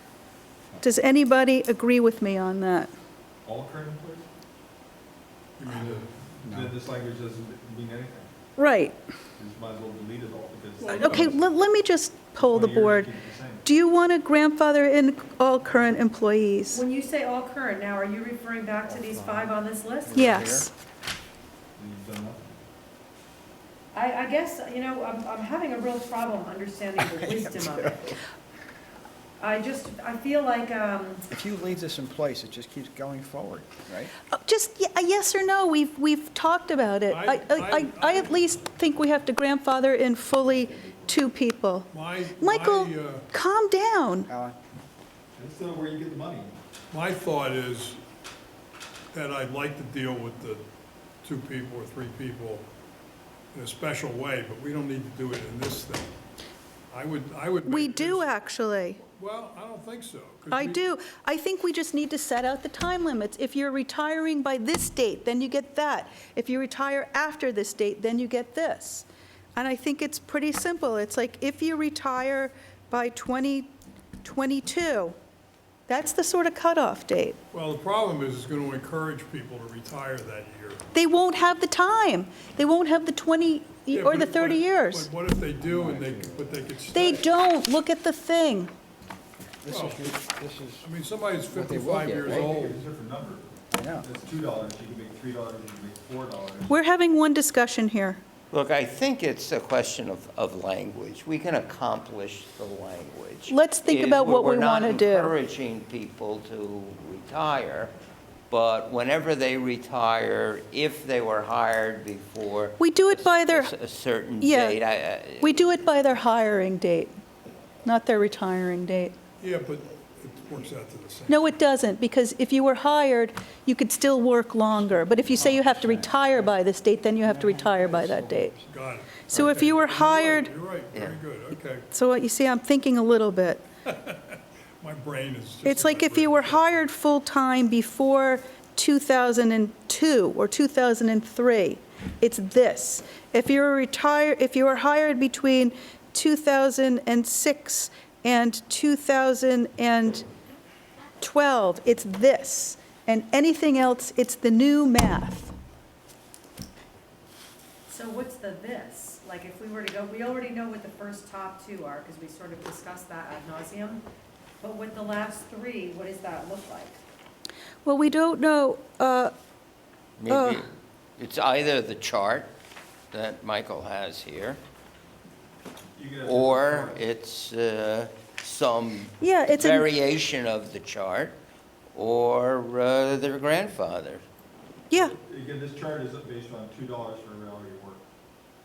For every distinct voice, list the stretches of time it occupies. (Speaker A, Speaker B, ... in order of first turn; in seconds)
Speaker A: 0.8-2.9, 8.6-8.9, 10.9-13.1, 13.7-16.8, 20.1-20.7, 34.3-44.3, 57.6-59.0, 60.5-73.7, 74.2-75.2, 75.9-77.4, 80.9-85.1, 86.9-88.7, 96.7-98.2, 103.5-105.3, 112.8-113.7, 114.4-114.8, 115.4-117.1, 117.8-119.2, 121.3-128.5, 129.3-130.5, 131.9-133.6, 135.6-150.3, 151.2-155.5, 167.8-169.3, 170.3-170.7, 179.2-179.9
Speaker B: 3.5-4.3, 6.5-8.3, 9.4-11.3, 12.4-13.7, 21.8-22.6, 40.5-41.2, 45.4-46.5, 92.2-96.7, 176.0-177.0, 184.9-188.0
Speaker C: 5.6-6.2, 10.8-11.3, 37.1-38.7, 41.9-43.3, 46.9-48.0, 49.1-50.6, 51.2-52.6, 53.5-56.1, 56.9-58.3, 59.0-60.8, 77.5-80.8, 83.9-87.3, 89.7-90.1, 90.8-92.8, 119.4-121.5, 128.7-131.9, 133.9-136.8
Speaker D: 6.5-6.8, 18.9-19.5, 20.1-20.7, 27.0-28.1, 31.3-34.1, 44.3-44.6, 85.6-86.6, 89.6-90.9, 91.5-92.5, 93.7-94.1, 125.2-126.5, 127.2-128.7
Speaker E: 16.7-20.3, 23.9-28.2, 29.4-31.2, 157.9-164.0, 164.6-167.0
Speaker F: 98.5-107.9, 108.5-115.6, 130.9-131.2, 170.2-172.5, 173.1-174.6, 176.2-181.4, 181.9-184.2